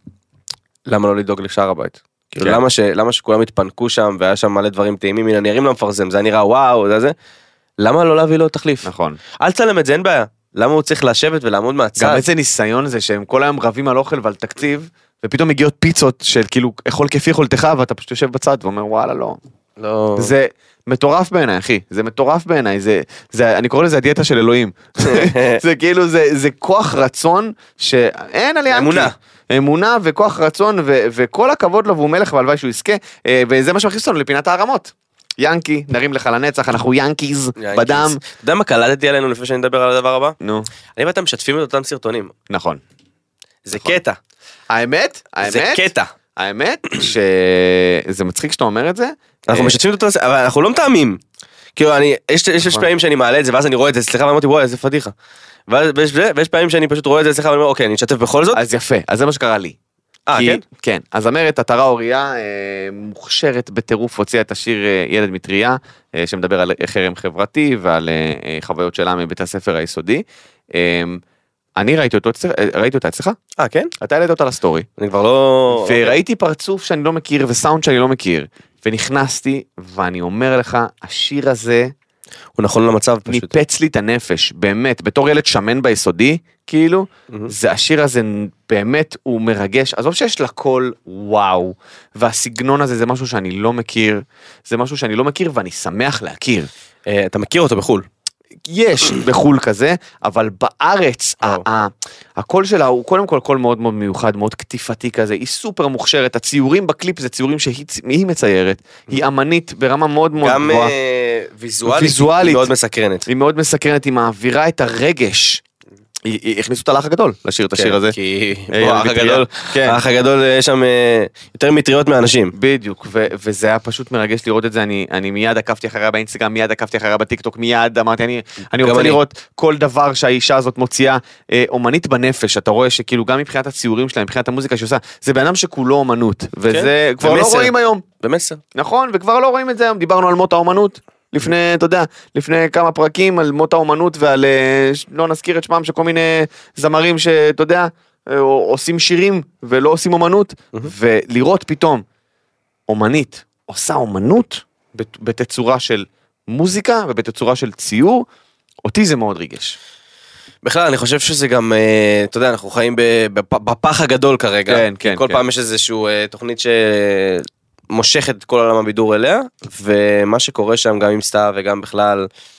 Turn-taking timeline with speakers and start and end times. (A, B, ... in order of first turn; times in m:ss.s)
0:00.9-0:07.2 A
0:07.8-0:12.2 A
0:08.8-0:09.2 B
0:12.0-0:19.4 B
0:19.8-0:20.3 A
0:20.2-0:38.2 B
0:25.0-0:25.6 A
0:28.7-0:29.1 A
0:37.6-0:40.4 A
0:40.4-0:40.7 B
0:41.0-0:42.3 A
0:42.5-0:42.8 B
0:43.6-0:44.2 A
0:43.7-0:44.0 B
0:44.7-0:49.8 B
0:45.4-0:46.1 A
0:49.5-0:51.2 A
0:51.8-0:55.1 A
0:55.7-0:58.6 A
0:58.5-0:59.8 B
1:00.3-1:00.6 A
1:00.3-1:11.2 B
1:11.8-1:13.4 B
1:13.6-1:13.9 A
1:14.0-1:14.9 B
1:15.0-1:16.2 A
1:15.7-1:21.9 B
1:22.6-1:23.6 A
1:23.3-1:36.7 B
1:37.1-1:38.1 A
1:38.7-1:50.9 B
1:50.4-1:53.3 A
1:51.9-1:52.7 B
1:53.3-1:55.6 B
1:56.2-1:58.2 B
1:57.8-2:02.5 A
1:58.7-2:00.0 B
2:02.5-2:18.0 B
2:08.8-2:09.2 A
2:16.7-2:18.6 A
2:18.8-2:32.0 B
2:32.9-2:38.3 B
2:38.8-2:39.8 B
2:40.6-2:52.3 A
2:44.7-2:45.4 B